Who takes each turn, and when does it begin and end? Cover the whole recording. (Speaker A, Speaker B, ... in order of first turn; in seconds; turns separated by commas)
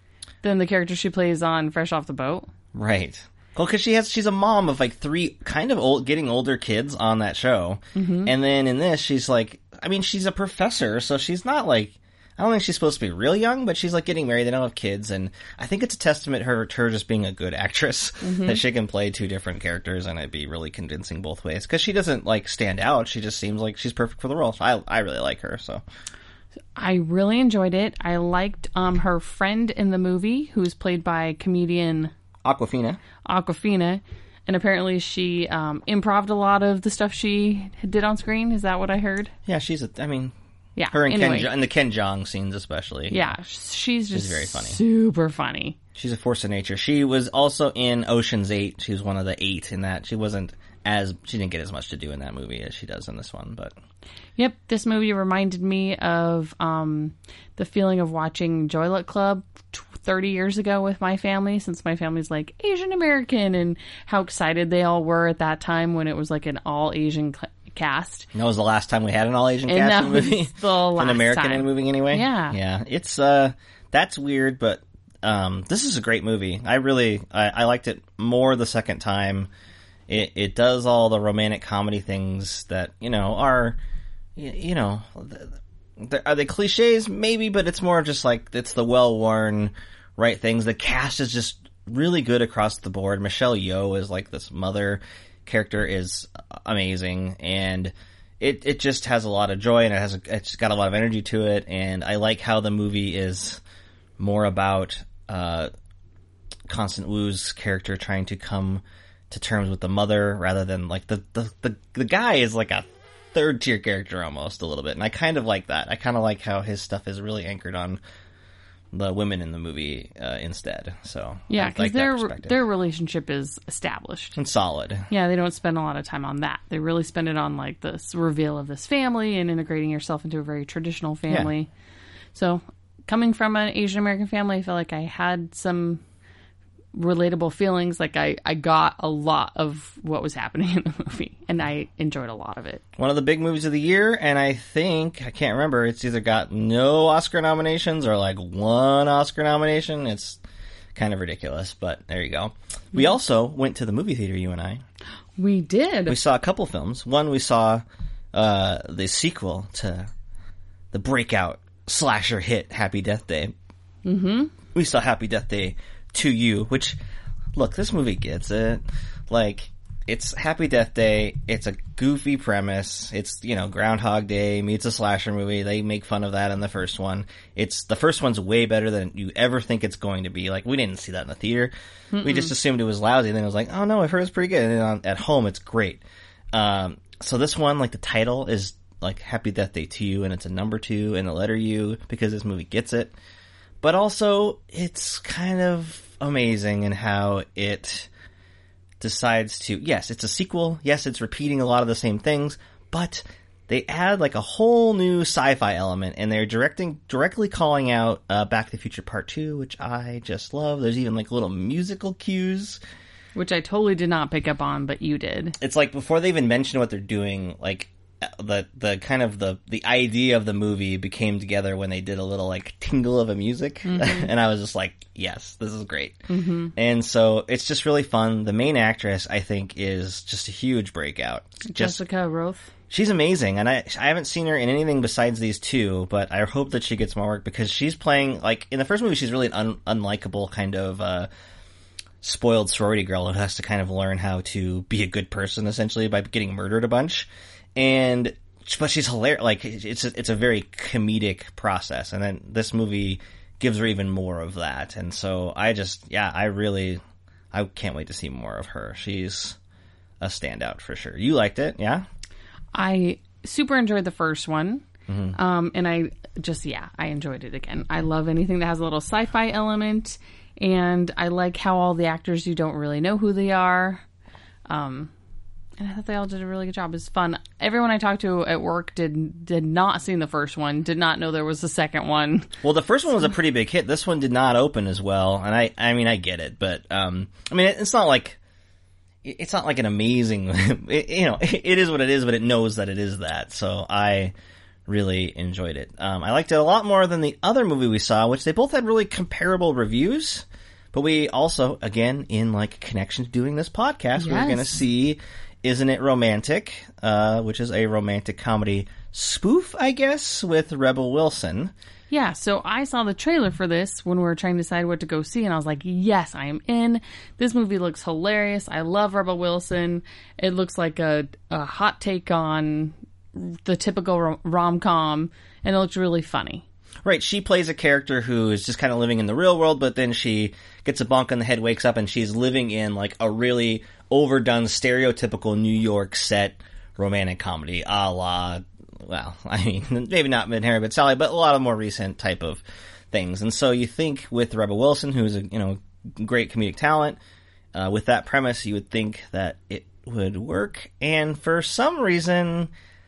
Speaker A: 0.4-2.5, Speaker B: 2.7-25.8, Speaker A: 7.9-8.3, Speaker A: 18.2-18.6, Speaker A: 26.8-32.1, Speaker B: 32.4-33.0, Speaker A: 33.2-39.3, Speaker B: 39.5-40.3, Speaker A: 40.8-41.5, Speaker B: 40.9-43.3, Speaker A: 43.1-45.8, Speaker B: 44.1-44.8, Speaker B: 46.0-53.8, Speaker A: 54.4-68.3, Speaker B: 68.3-79.5, Speaker A: 69.7-72.5, Speaker B: 80.1-83.8, Speaker B: 84.3-103.6, Speaker B: 104.2-105.7, Speaker B: 106.7-118.0, Speaker B: 118.9-122.6, Speaker A: 121.5-124.4, Speaker B: 124.3-125.1, Speaker A: 125.1-131.7, Speaker A: 132.3-136.0, Speaker A: 136.9-142.8, Speaker B: 143.0-150.4, Speaker B: 150.9-154.8, Speaker A: 155.4-156.2, Speaker B: 156.1-160.1, Speaker B: 160.9-163.5, Speaker A: 164.0-164.5, Speaker B: 164.7-167.0, Speaker B: 167.5-193.1, Speaker A: 182.1-182.5, Speaker B: 193.8-198.1, Speaker B: 199.0-212.8, Speaker A: 213.3-215.6, Speaker B: 215.6-226.2, Speaker A: 223.8-224.3, Speaker A: 226.3-226.7, Speaker B: 226.8-232.0, Speaker A: 231.6-232.7, Speaker B: 232.9-241.3, Speaker B: 242.2-257.0, Speaker B: 257.5-259.6, Speaker B: 260.2-262.1, Speaker A: 262.7-274.0, Speaker B: 265.1-265.4, Speaker A: 274.7-275.1, Speaker A: 275.8-282.5, Speaker B: 282.6-288.4, Speaker B: 289.2-294.3, Speaker B: 294.9-311.7, Speaker A: 304.2-304.8, Speaker A: 312.1-326.6, Speaker B: 327.0-347.2, Speaker B: 347.7-352.7